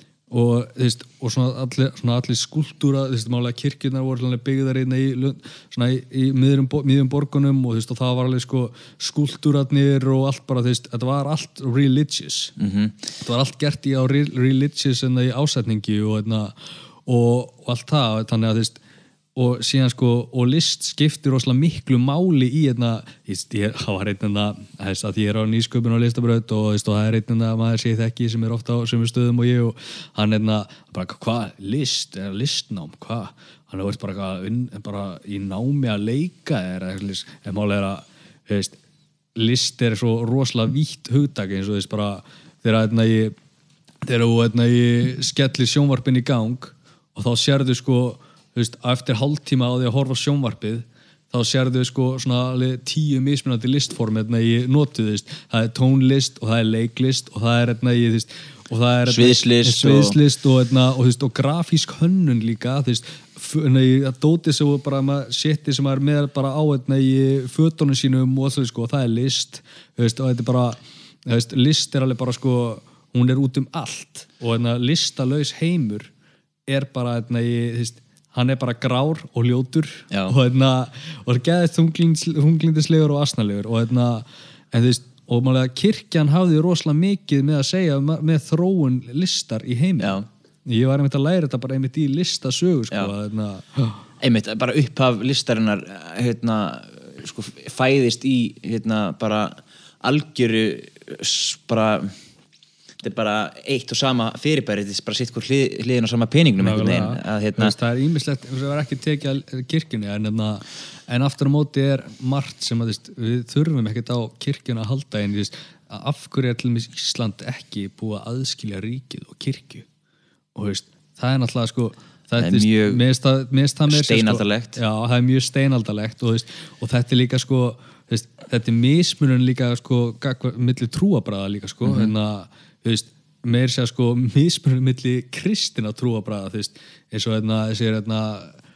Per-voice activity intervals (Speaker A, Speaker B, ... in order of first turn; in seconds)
Speaker A: 0.3-12.5, 13.2-18.8, 19.3-38.8, 39.3-43.3, 44.0-76.1, 76.7-94.0, 106.6-119.9, 120.5-138.6
Speaker B: 12.6-13.0, 59.1-60.2, 80.1-80.3, 90.0-90.2, 94.2-102.1, 103.0-107.7, 122.4-123.0, 123.9-124.8, 131.8-132.1